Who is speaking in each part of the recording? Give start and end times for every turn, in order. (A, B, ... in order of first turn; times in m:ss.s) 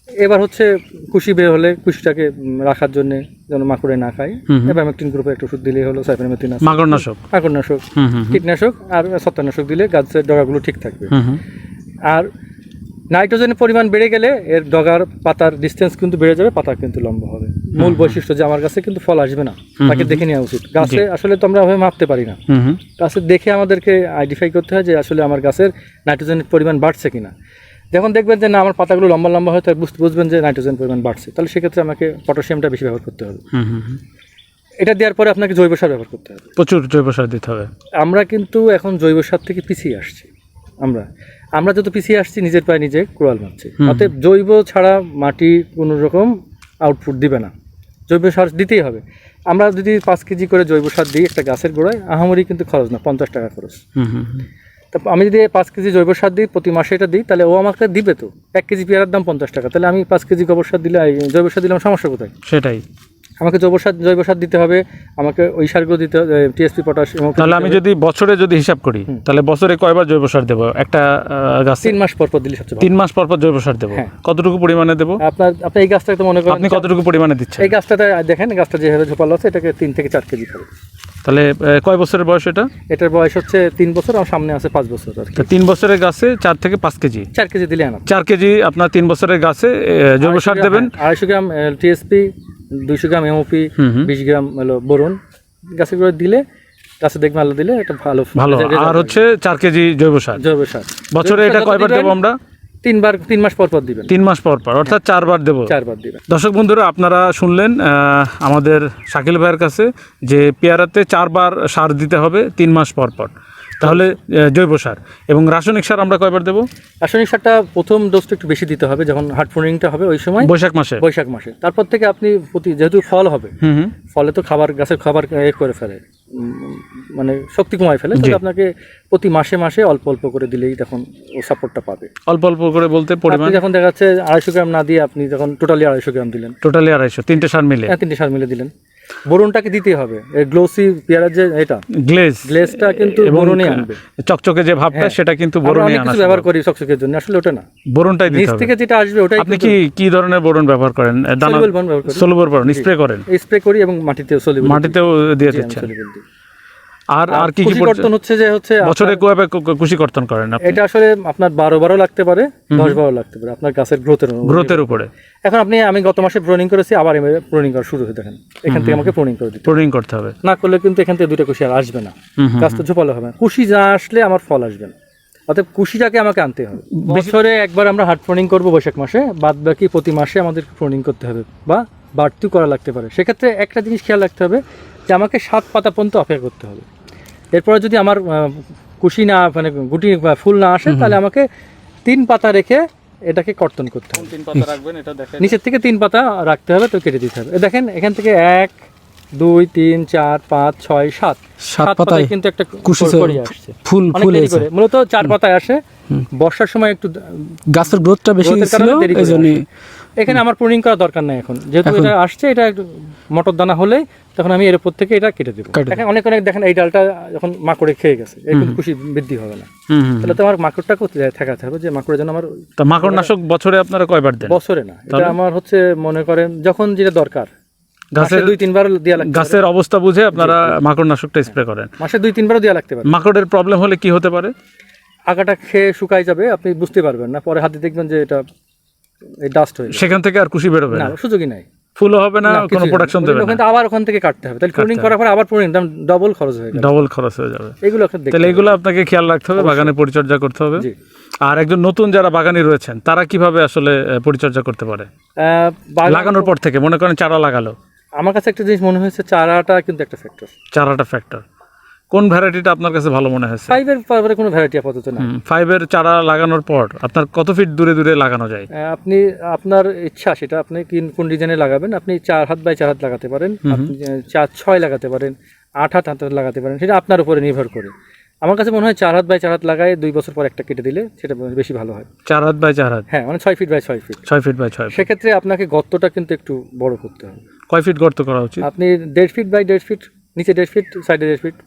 0:00.2-0:11.1 A
0:04.5-0:04.8 B
0:06.6-0:07.2 B
0:08.0-0:08.4 B
0:11.1-0:11.4 B
0:13.1-0:22.4 A
0:17.8-0:18.2 B
0:19.8-0:20.2 B
0:22.5-0:22.8 B
0:23.0-0:27.3 A
0:27.9-0:33.4 A
0:33.5-0:34.0 B
0:34.8-0:36.4 A
0:36.6-0:37.7 B
0:38.0-0:40.3 A
0:41.6-0:46.3 A
0:43.8-0:44.1 B
0:46.8-0:47.5 A
0:48.1-0:53.8 A
0:54.0-0:54.4 B
0:54.9-1:02.3 A
1:02.4-1:02.8 B
1:03.4-1:07.8 A
1:07.4-1:12.0 B
1:11.8-1:12.9 A
1:12.8-1:15.2 B
1:15.2-1:16.9 A
1:16.5-1:17.7 B
1:17.6-1:20.7 A
1:21.2-1:22.7 B
1:22.9-1:25.5 A
1:25.4-1:27.3 B
1:27.3-1:28.0 A
1:28.1-1:31.0 B
1:30.2-1:32.3 A
1:32.8-1:35.2 A
1:33.8-1:34.1 B
1:35.8-1:36.4 A
1:37.0-1:39.2 A
1:38.4-1:40.4 B
1:40.4-1:42.2 A
1:41.1-1:42.4 B
1:42.8-1:44.1 A
1:44.1-1:45.7 B
1:45.7-1:46.2 A
1:46.3-1:56.6 B
1:57.0-2:03.5 A
2:00.4-2:01.0 B
2:03.6-2:03.9 B
2:04.1-2:12.1 A
2:08.1-2:08.4 B
2:12.3-2:13.6 B
2:13.3-2:16.6 A
2:16.6-2:17.9 B
2:17.9-2:18.7 A
2:19.3-2:21.8 A
2:22.0-2:26.5 B
2:22.4-2:24.0 A
2:24.9-2:27.6 A
2:27.9-2:28.7 B
2:28.3-2:29.8 A
2:29.4-2:33.2 B
2:31.4-2:36.2 A
2:34.6-2:35.9 B
2:37.1-2:38.1 B
2:37.3-2:39.2 A
2:38.8-2:40.8 B
2:40.6-2:49.8 A
2:42.7-2:43.0 B
2:44.4-2:45.1 B
2:48.7-2:49.1 B
2:49.6-2:50.3 B
2:50.4-2:54.9 A
2:52.4-2:52.8 B
2:55.5-3:06.8 A
2:57.0-2:57.3 B
3:07.6-3:11.4 A
3:10.9-3:11.2 C
3:12.1-3:14.3 A
3:14.2-3:15.6 B
3:15.4-3:18.8 A
3:19.4-3:25.8 A
3:21.7-3:22.3 C
3:22.8-3:24.6 C
3:26.4-3:27.5 A
3:27.7-3:29.6 C
3:28.4-3:29.6 A
3:30.2-3:39.7 A
3:31.8-3:32.1 C
3:35.8-3:36.0 C
3:38.5-3:38.8 B
3:39.9-3:40.4 B
3:40.2-3:43.3 A
3:42.8-3:44.6 B
3:44.4-3:47.5 A
3:45.1-3:45.4 B
3:48.1-3:48.6 B
3:48.2-3:49.6 A
3:49.2-3:51.9 B
3:50.3-3:50.8 A
3:52.0-3:53.1 A
3:53.1-3:54.5 B
3:55.3-3:58.4 A
3:59.4-4:00.1 A
3:59.9-4:01.1 B
4:00.9-4:01.6 A
4:02.0-4:03.6 B
4:02.4-4:06.9 A
4:04.8-4:05.1 B
4:06.8-4:07.8 B
4:07.8-4:08.8 A
4:08.3-4:10.9 B
4:09.6-4:09.9 A
4:11.4-4:15.1 B
4:15.4-4:16.5 A
4:16.1-4:17.8 B
4:18.2-4:20.5 A
4:20.7-4:21.4 B
4:22.1-4:23.8 B
4:23.7-4:25.3 A
4:25.2-4:28.7 B
4:28.7-4:37.9 A
4:33.6-4:33.9 B
4:38.4-4:42.1 A
4:42.3-4:43.0 B
4:43.1-4:44.2 A
4:44.3-4:45.1 B
4:44.9-4:47.4 A
4:47.7-4:48.6 B
4:48.6-4:51.6 A